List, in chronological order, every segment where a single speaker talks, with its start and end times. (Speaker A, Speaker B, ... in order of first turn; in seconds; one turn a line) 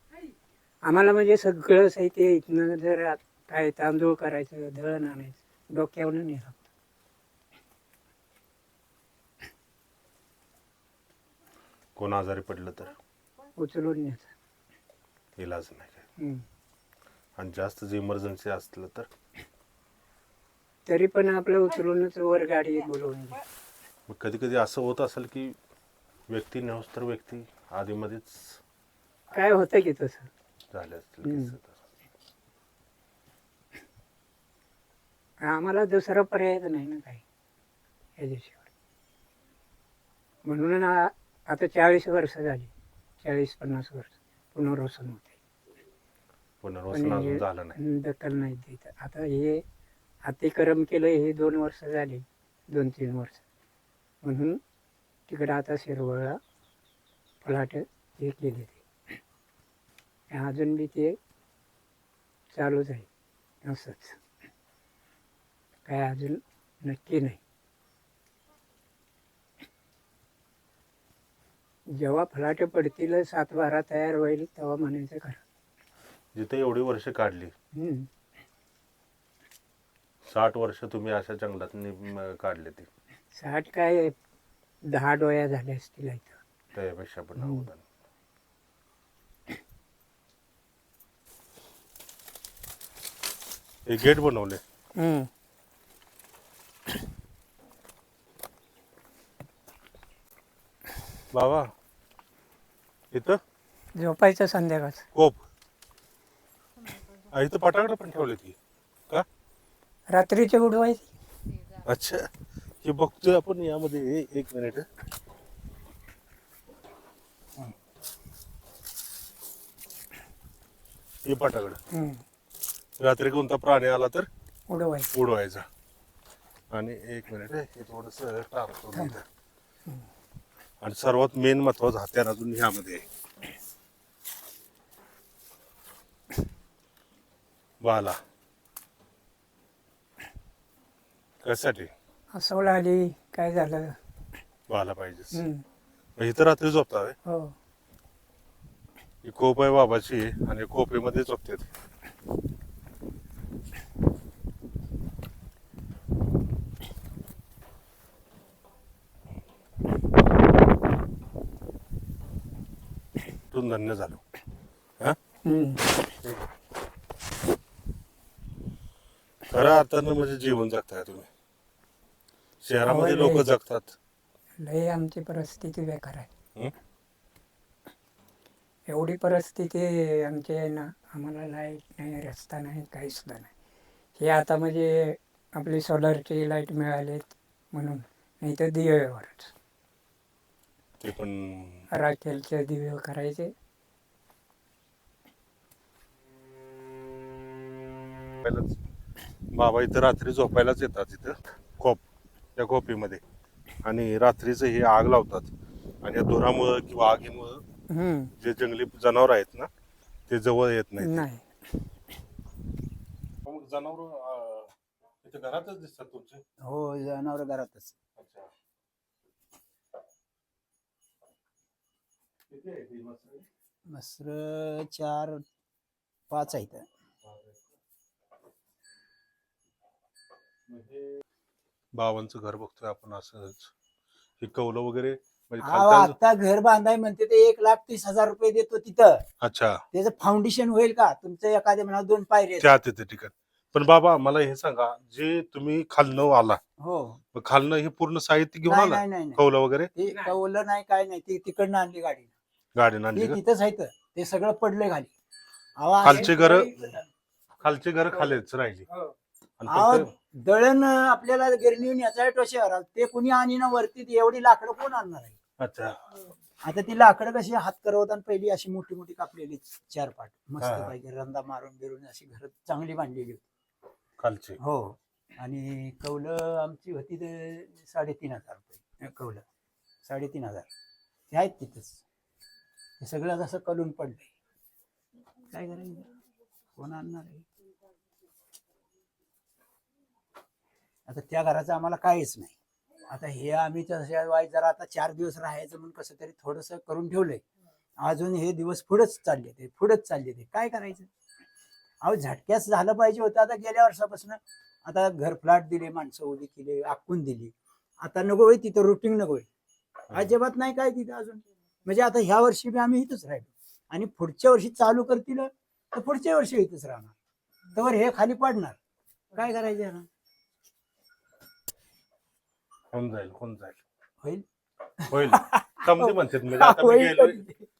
Speaker A: 0.8-6.7
Speaker B: 11.9-12.9
Speaker A: 13.6-14.3
Speaker B: 15.4-16.1
Speaker A: 16.2-16.4
Speaker B: 17.4-19.1
Speaker A: 20.9-23.4
Speaker B: 24.1-25.6
Speaker B: 26.3-28.6
Speaker A: 29.3-30.3
Speaker B: 30.7-31.8
Speaker A: 31.2-31.5
Speaker A: 35.4-37.2
Speaker A: 38.2-38.6
Speaker A: 40.4-42.7
Speaker A: 43.2-45.3
Speaker B: 46.6-47.8
Speaker A: 46.9-49.6
Speaker A: 50.2-53.4
Speaker A: 54.2-54.6
Speaker A: 55.3-56.4
Speaker A: 57.4-58.8
Speaker A: 60.3-61.2
Speaker A: 62.5-63.1
Speaker A: 63.6-64.2
Speaker A: 65.8-67.4
Speaker A: 71.9-75.4
Speaker B: 76.3-77.5
Speaker A: 77.7-78.1
Speaker B: 80.2-82.9
Speaker A: 83.3-84.1
Speaker A: 84.8-86.4
Speaker B: 86.7-87.8
Speaker A: 87.4-87.7
Speaker B: 93.8-94.6
Speaker A: 95.0-95.3
Speaker B: 101.3-101.7
Speaker B: 103.1-103.4
Speaker A: 104.0-105.1
Speaker B: 105.1-105.4
Speaker B: 107.3-108.6
Speaker A: 110.1-111.1
Speaker B: 111.8-112.3
Speaker B: 112.8-114.8
Speaker B: 121.2-121.8
Speaker A: 121.9-122.2
Speaker B: 123.0-124.3
Speaker A: 124.7-125.1
Speaker B: 125.1-125.7
Speaker B: 126.7-129.2
Speaker B: 130.8-133.1
Speaker B: 137.8-138.2
Speaker B: 141.4-141.9
Speaker A: 142.3-144.0
Speaker B: 144.7-145.4
Speaker A: 145.3-145.6
Speaker B: 146.2-147.2
Speaker A: 147.2-147.5
Speaker B: 149.2-151.7
Speaker B: 163.5-164.2
Speaker A: 165.4-166.0
Speaker B: 166.2-166.5
Speaker B: 169.5-171.3
Speaker B: 172.6-173.9
Speaker A: 172.8-173.5
Speaker A: 174.6-176.3
Speaker A: 178.9-183.5
Speaker A: 184.2-189.5
Speaker B: 191.0-191.9
Speaker A: 191.9-193.5
Speaker B: 198.4-198.8
Speaker B: 199.5-202.0
Speaker B: 202.6-203.2
Speaker B: 203.8-205.5
Speaker B: 206.0-207.6
Speaker A: 207.9-208.3
Speaker B: 208.4-209.7
Speaker B: 210.3-211.3
Speaker A: 211.0-211.5
Speaker B: 213.4-216.4
Speaker C: 216.6-217.9
Speaker B: 218.2-218.5
Speaker B: 222.5-223.5
Speaker C: 223.9-225.4
Speaker C: 226.3-226.9
Speaker B: 227.2-227.7
Speaker B: 230.7-231.2
Speaker B: 231.9-233.7
Speaker B: 234.4-236.2
Speaker C: 235.6-239.2
Speaker B: 239.4-239.8
Speaker C: 239.9-242.7
Speaker B: 242.6-246.6
Speaker C: 246.8-247.2
Speaker B: 247.3-249.9
Speaker C: 248.6-249.4
Speaker C: 249.9-252.3
Speaker B: 252.8-253.4
Speaker C: 253.1-255.1
Speaker C: 255.8-257.1
Speaker B: 256.0-256.7
Speaker B: 257.6-258.9
Speaker B: 259.6-260.1
Speaker C: 259.7-265.4
Speaker B: 265.6-266.0
Speaker C: 266.6-273.5
Speaker B: 270.6-270.9
Speaker B: 274.2-274.6
Speaker C: 274.6-279.4
Speaker C: 280.0-280.7
Speaker C: 281.3-282.0
Speaker C: 283.0-284.3
Speaker C: 285.5-286.1
Speaker C: 286.8-287.4
Speaker C: 291.1-292.6
Speaker C: 293.1-297.4
Speaker C: 298.0-301.1
Speaker C: 302.0-309.5
Speaker C: 310.1-317.1
Speaker C: 317.7-318.8
Speaker C: 319.3-320.1
Speaker B: 322.9-323.8
Speaker C: 325.0-327.6
Speaker B: 325.1-327.4